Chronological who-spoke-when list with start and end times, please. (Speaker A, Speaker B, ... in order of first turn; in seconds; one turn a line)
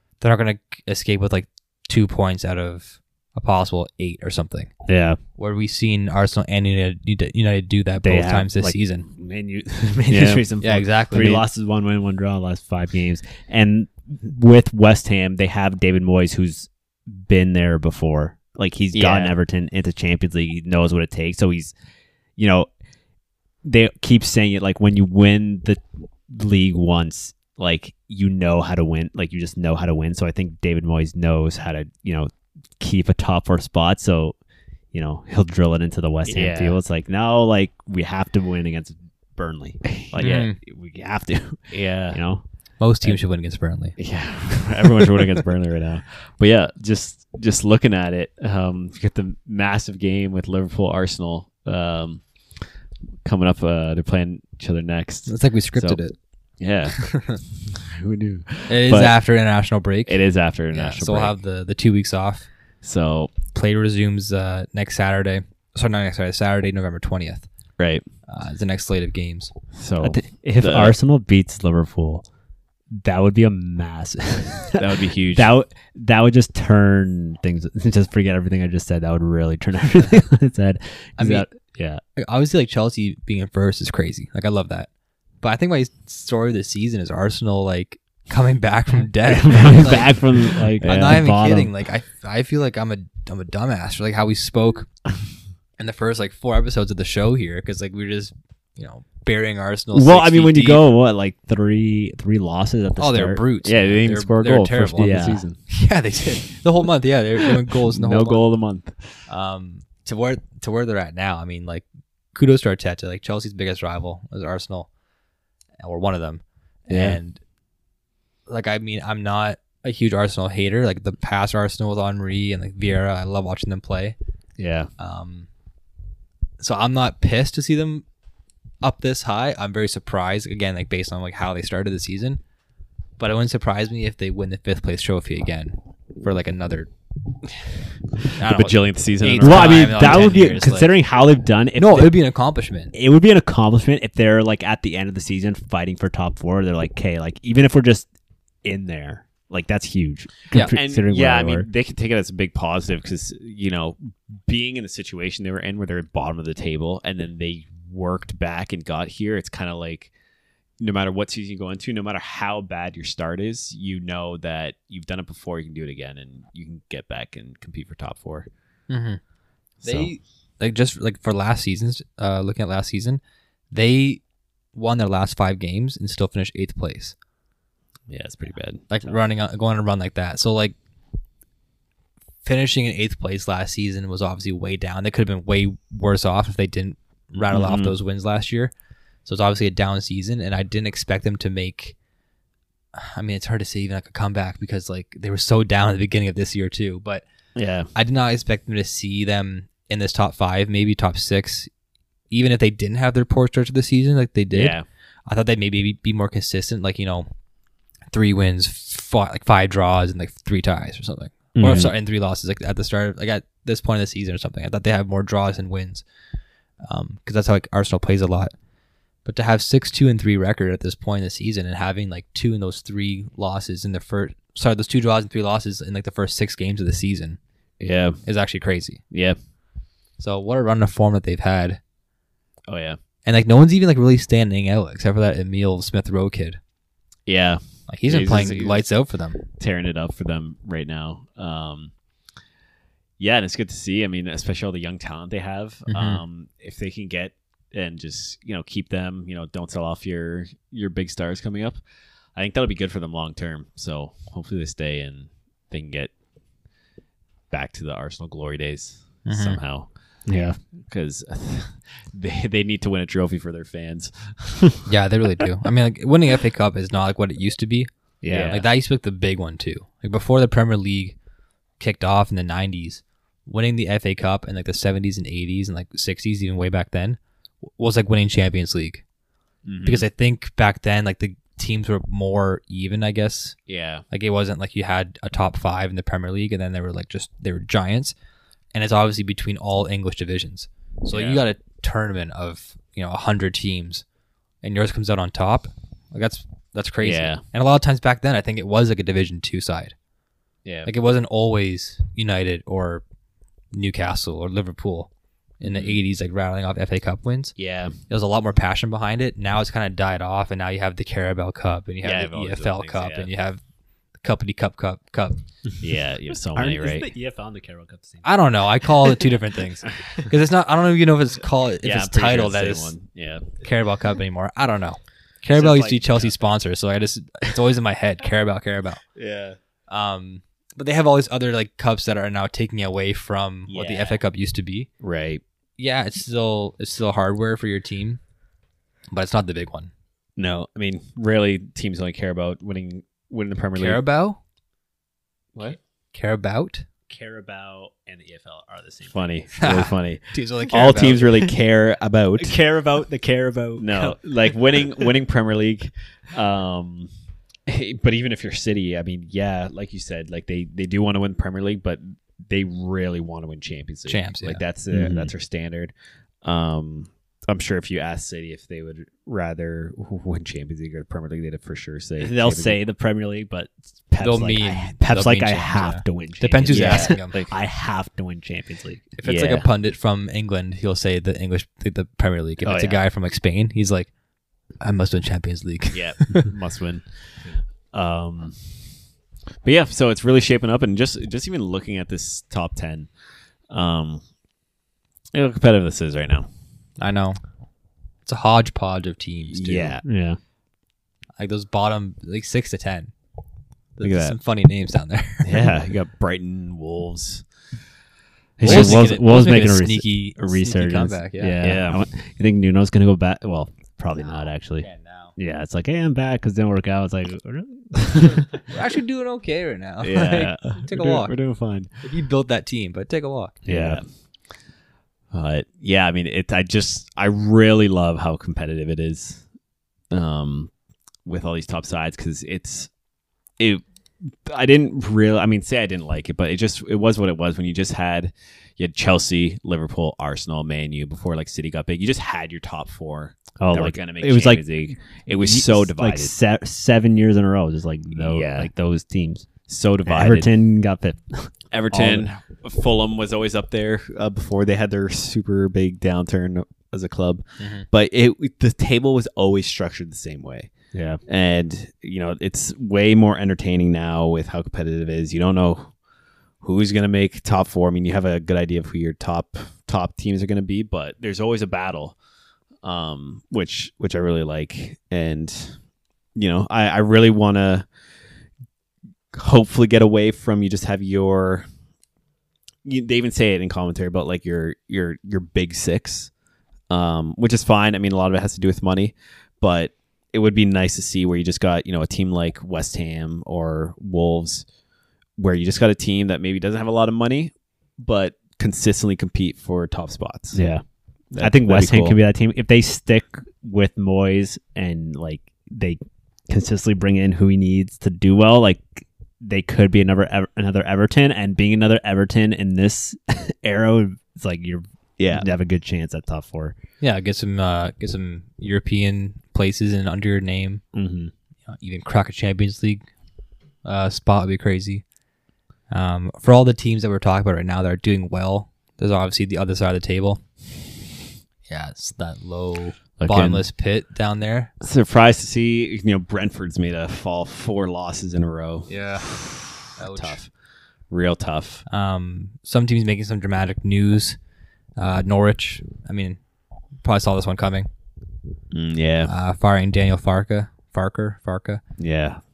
Speaker A: 0.2-4.7
Speaker B: 4.9-5.2
Speaker A: 5.4-9.1
Speaker B: 8.0-21.7
Speaker C: 10.1-10.4
Speaker A: 10.6-11.4
Speaker C: 18.9-19.3
Speaker B: 22.4-22.7
Speaker B: 23.6-34.3
Speaker B: 34.9-42.4
Speaker C: 36.2-36.8
Speaker C: 40.1-40.5
Speaker A: 40.2-40.5
Speaker C: 41.7-42.2
Speaker A: 42.8-44.0
Speaker C: 44.0-52.2
Speaker C: 53.2-56.0
Speaker A: 55.3-56.1
Speaker C: 56.6-59.2
Speaker A: 57.0-57.4
Speaker A: 58.7-60.2
Speaker C: 60.0-61.4
Speaker A: 60.7-62.5
Speaker C: 62.8-63.3
Speaker A: 63.5-67.5
Speaker C: 67.8-68.0
Speaker A: 68.3-69.5
Speaker C: 69.7-71.0
Speaker B: 70.0-72.2
Speaker B: 72.9-82.0
Speaker C: 74.7-75.5
Speaker A: 81.2-81.5
Speaker A: 82.2-84.9
Speaker A: 85.4-94.9
Speaker B: 89.2-91.7
Speaker C: 90.8-91.2
Speaker A: 95.8-100.8
Speaker B: 99.9-103.4
Speaker A: 103.0-105.2
Speaker C: 103.6-105.6
Speaker B: 104.9-105.5
Speaker A: 105.7-108.4
Speaker C: 108.0-108.9
Speaker A: 109.3-114.9
Speaker A: 115.8-117.4
Speaker C: 116.9-117.2
Speaker A: 118.5-124.2
Speaker C: 124.6-124.9
Speaker A: 125.0-125.5
Speaker A: 126.6-128.0
Speaker A: 128.8-132.4
Speaker A: 133.2-136.9
Speaker A: 138.3-140.9
Speaker C: 138.5-140.4
Speaker B: 139.4-142.2
Speaker A: 141.8-142.9
Speaker B: 142.9-148.1
Speaker B: 148.6-151.7
Speaker C: 150.7-160.1
Speaker C: 160.8-168.5
Speaker A: 168.9-169.2
Speaker C: 169.8-170.1
Speaker A: 169.8-173.2
Speaker A: 173.7-174.2
Speaker A: 174.7-177.1
Speaker C: 178.1-179.1
Speaker A: 178.9-180.7
Speaker A: 182.4-188.7
Speaker C: 187.5-187.9
Speaker A: 189.2-191.9
Speaker A: 192.9-197.2
Speaker C: 197.5-197.9
Speaker A: 197.9-201.7
Speaker A: 202.3-207.3
Speaker C: 204.5-204.8
Speaker A: 208.1-216.0
Speaker B: 211.6-211.9
Speaker C: 211.6-211.9
Speaker A: 216.8-218.5
Speaker A: 219.2-227.4
Speaker C: 227.8-228.2
Speaker A: 228.2-229.0
Speaker C: 229.1-229.4
Speaker A: 230.2-231.8
Speaker C: 232.7-233.0
Speaker A: 233.2-236.6
Speaker C: 237.3-238.8
Speaker A: 237.9-239.4
Speaker C: 239.5-241.9
Speaker C: 243.2-251.8
Speaker A: 245.9-246.2
Speaker C: 252.3-256.1
Speaker C: 257.5-259.9
Speaker A: 259.2-259.6
Speaker B: 260.3-260.6
Speaker C: 260.8-264.7
Speaker A: 264.9-271.1
Speaker B: 268.2-268.5
Speaker C: 268.3-268.6
Speaker A: 271.8-279.0
Speaker C: 279.6-280.1
Speaker A: 279.8-283.6
Speaker C: 283.7-284.0
Speaker A: 284.1-288.1
Speaker A: 288.7-294.0
Speaker C: 291.1-291.4
Speaker A: 294.6-299.9
Speaker C: 297.0-297.4
Speaker C: 300.6-300.9
Speaker A: 300.8-303.0
Speaker A: 303.7-307.5
Speaker C: 305.6-306.0
Speaker C: 307.6-307.9
Speaker A: 308.1-313.6
Speaker C: 312.0-313.3
Speaker A: 314.2-315.4
Speaker C: 315.8-317.1
Speaker B: 316.5-318.3
Speaker A: 318.2-322.9
Speaker C: 321.8-323.5
Speaker A: 323.6-329.0
Speaker C: 325.5-326.3
Speaker C: 329.1-329.6
Speaker A: 329.9-334.9
Speaker C: 333.7-334.2
Speaker C: 335.0-335.4
Speaker A: 335.8-338.2
Speaker A: 339.1-339.9
Speaker C: 340.4-344.0
Speaker A: 343.7-344.4
Speaker A: 346.1-346.9
Speaker B: 347.1-349.3
Speaker C: 349.1-352.6
Speaker A: 349.6-351.4
Speaker B: 352.4-354.1
Speaker C: 353.8-357.1
Speaker C: 357.7-365.9
Speaker A: 364.1-364.6
Speaker B: 364.9-365.3
Speaker C: 366.4-372.8
Speaker B: 372.2-379.1
Speaker A: 374.2-377.4
Speaker C: 376.7-377.6
Speaker A: 379.2-384.1
Speaker C: 379.2-379.7
Speaker A: 384.8-386.5
Speaker C: 385.9-388.8
Speaker C: 389.6-393.1
Speaker C: 393.7-394.2
Speaker C: 395.3-396.5
Speaker A: 397.0-397.4
Speaker A: 398.2-400.0
Speaker C: 399.5-400.0
Speaker B: 400.0-400.4
Speaker A: 401.4-403.1
Speaker A: 404.0-405.7
Speaker C: 404.0-404.4
Speaker C: 405.4-407.4
Speaker C: 408.6-409.1
Speaker B: 408.6-418.6
Speaker A: 408.6-411.6
Speaker C: 411.6-412.0
Speaker A: 414.8-415.3
Speaker A: 418.5-421.3
Speaker C: 420.0-421.9
Speaker A: 422.0-423.6
Speaker B: 423.6-424.0
Speaker C: 423.6-424.0
Speaker C: 425.3-429.4
Speaker C: 430.1-430.7
Speaker C: 431.2-432.9
Speaker C: 433.6-446.3
Speaker B: 443.6-444.7
Speaker B: 445.3-452.3
Speaker C: 448.1-448.7
Speaker C: 449.7-450.5
Speaker C: 451.7-460.7
Speaker A: 457.6-457.9
Speaker B: 460.9-461.2
Speaker C: 461.3-465.9
Speaker C: 466.6-472.2
Speaker C: 472.8-475.8
Speaker C: 476.3-477.9
Speaker C: 479.3-481.6
Speaker C: 482.8-486.3
Speaker C: 486.9-494.6
Speaker C: 495.4-500.6
Speaker B: 500.5-500.8
Speaker C: 501.3-502.2
Speaker B: 501.4-516.7
Speaker C: 515.2-515.5
Speaker A: 517.0-520.8
Speaker B: 520.9-521.3
Speaker A: 521.6-523.0
Speaker A: 523.8-525.0
Speaker A: 525.9-530.4
Speaker A: 531.7-534.7
Speaker C: 533.2-533.6
Speaker C: 534.8-540.5
Speaker A: 538.9-540.5
Speaker C: 541.1-541.8
Speaker A: 541.9-544.4
Speaker A: 545.0-546.4
Speaker A: 547.0-547.9
Speaker C: 548.7-549.3
Speaker A: 549.2-551.8
Speaker C: 552.0-552.4